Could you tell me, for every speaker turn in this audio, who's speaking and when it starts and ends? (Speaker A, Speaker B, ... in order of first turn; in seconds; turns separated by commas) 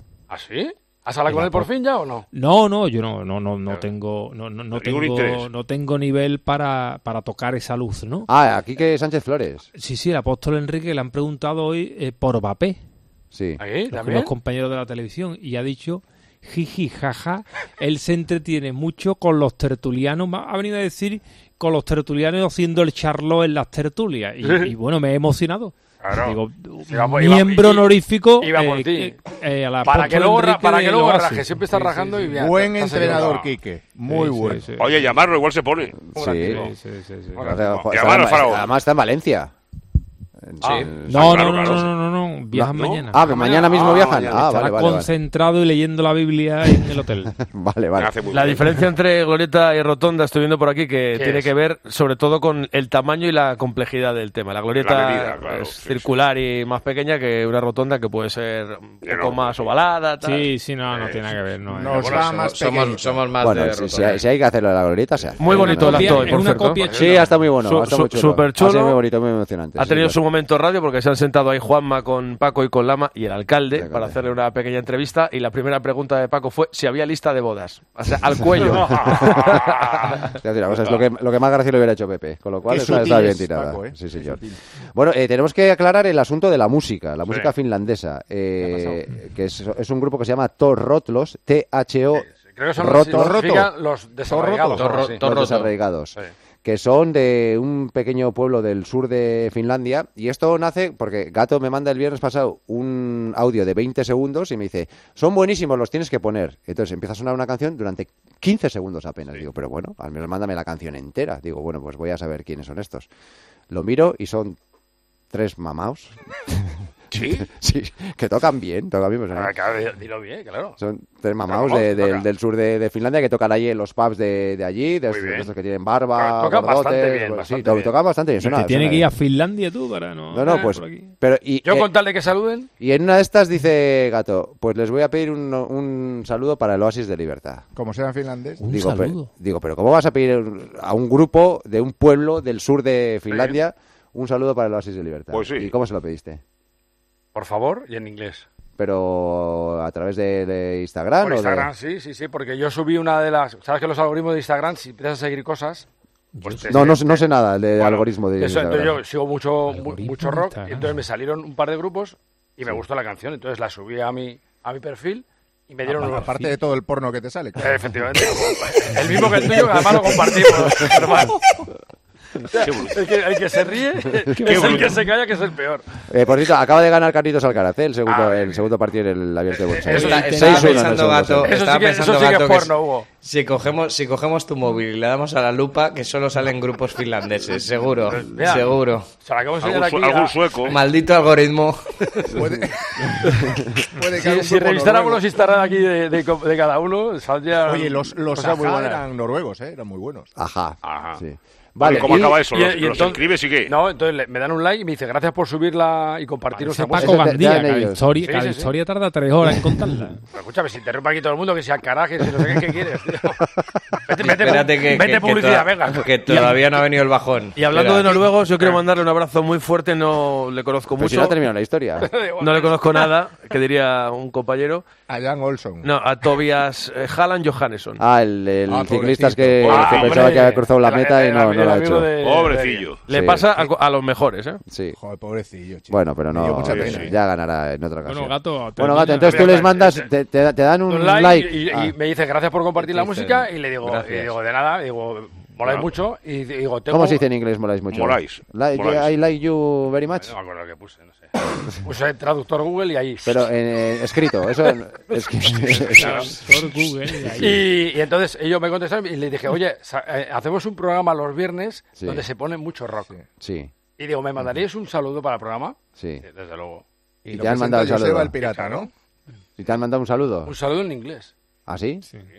Speaker A: 0.3-2.3, Speaker B: 1.3-1.7, Speaker B: 2.3-8.3, Speaker C: 4.7-5.5, Speaker D: 8.3-9.7, Speaker B: 9.8-12.8, Speaker D: 13.3-13.6, Speaker A: 13.6-14.3, Speaker B: 13.9-32.3, Speaker A: 24.4-24.7, Speaker A: 26.0-29.2, Speaker A: 29.8-33.5, Speaker E: 32.3-34.7, Speaker B: 34.1-35.1, Speaker C: 34.8-36.1, Speaker D: 36.1-36.7, Speaker A: 36.1-36.7, Speaker B: 36.3-37.5, Speaker A: 37.4-37.9, Speaker D: 37.4-39.5, Speaker C: 37.9-38.7, Speaker D: 40.4-41.7, Speaker C: 40.8-41.9, Speaker B: 41.0-43.2, Speaker D: 42.5-45.1, Speaker C: 42.6-44.4, Speaker B: 44.3-47.3, Speaker D: 47.3-48.1, Speaker C: 48.0-48.7, Speaker F: 48.3-60.5, Speaker A: 51.1-51.5, Speaker C: 54.8-56.1, Speaker C: 59.0-59.7, Speaker B: 60.2-62.3, Speaker E: 61.7-63.2, Speaker A: 62.0-62.3, Speaker G: 62.2-64.2, Speaker D: 63.4-70.2, Speaker F: 65.4-69.0, Speaker B: 65.5-67.2, Speaker A: 66.8-67.1, Speaker F: 69.8-79.4, Speaker D: 73.7-74.2, Speaker D: 78.6-79.6, Speaker A: 78.7-80.2, Speaker D: 80.4-84.4, Speaker E: 82.7-84.6, Speaker D: 85.0-93.6, Speaker E: 88.6-89.0, Speaker A: 92.2-95.5, Speaker E: 92.9-93.7, Speaker E: 94.3-95.0, Speaker G: 94.8-95.7, Speaker D: 94.9-113.1, Speaker D: 113.7-114.6, Speaker D: 115.3-119.5, Speaker C: 117.1-117.5, Speaker A: 119.3-120.8, Speaker D: 120.8-129.1, Speaker A: 121.5-122.2, Speaker A: 125.1-125.5, Speaker A: 126.1-127.9, Speaker B: 128.4-131.1, Speaker D: 130.3-131.9, Speaker A: 131.6-132.7, Speaker D: 132.8-137.7, Speaker E: 137.8-138.6, Speaker B: 138.6-139.3, Speaker D: 138.7-146.4, Speaker A: 143.3-143.6, Speaker C: 145.3-145.7, Speaker A: 147.3-148.5, Speaker D: 148.8-151.7, Speaker A: 151.2-155.9, Speaker B: 156.3-157.0, Speaker A: 156.4-157.2, Speaker D: 156.7-159.0, Speaker A: 157.8-166.3, Speaker B: 159.7-160.9, Speaker E: 165.9-167.9, Speaker B: 166.1-166.5, Speaker A: 167.6-171.5, Speaker A: 172.5-175.8, Speaker C: 172.6-173.0, Speaker B: 174.4-174.9, Speaker C: 174.4-175.0, Speaker D: 176.1-181.6, Speaker A: 178.1-178.6, Speaker A: 179.6-180.8, Speaker G: 179.9-189.1, Speaker B: 180.1-180.9, Speaker A: 181.4-183.1, Speaker A: 188.0-190.4, Speaker C: 189.6-190.8, Speaker G: 190.7-191.8, Speaker A: 192.1-192.4, Speaker E: 192.3-195.4, Speaker A: 194.1-199.1, Speaker E: 197.6-200.3, Speaker D: 200.4-202.4, Speaker A: 201.8-207.3, Speaker C: 201.8-203.7, Speaker B: 206.5-210.2, Speaker D: 207.0-208.1, Speaker A: 208.2-208.7, Speaker A: 210.3-213.4, Speaker A: 214.1-216.6, Speaker G: 214.2-218.2, Speaker F: 217.6-221.4, Speaker A: 218.1-218.8, Speaker D: 220.9-222.1, Speaker A: 222.0-223.1, Speaker F: 222.4-224.8, Speaker E: 225.1-225.9, Speaker F: 225.8-228.0, Speaker D: 228.0-232.1, Speaker E: 228.7-230.3, Speaker C: 229.6-230.2, Speaker A: 229.7-232.9, Speaker C: 232.2-233.0, Speaker D: 233.1-233.7, Speaker F: 233.1-234.6, Speaker D: 234.7-235.0, Speaker E: 235.0-237.1, Speaker D: 235.9-241.9, Speaker C: 236.6-237.1, Speaker B: 238.1-239.8, Speaker A: 239.2-240.1, Speaker A: 240.9-247.2, Speaker G: 242.8-244.4, Speaker D: 246.9-250.3, Speaker C: 247.9-249.1, Speaker A: 250.1-251.3, Speaker A: 251.8-253.4, Speaker D: 253.2-256.3, Speaker A: 255.5-256.4, Speaker B: 255.8-257.7, Speaker A: 257.3-263.1, Speaker D: 262.0-262.2, Speaker D: 263.4-263.7, Speaker A: 264.0-266.8, Speaker D: 266.0-266.2, Speaker E: 267.2-268.9, Speaker D: 267.3-268.3, Speaker A: 268.4-268.9, Speaker D: 269.6-270.5, Speaker A: 270.4-271.3, Speaker D: 271.7-272.0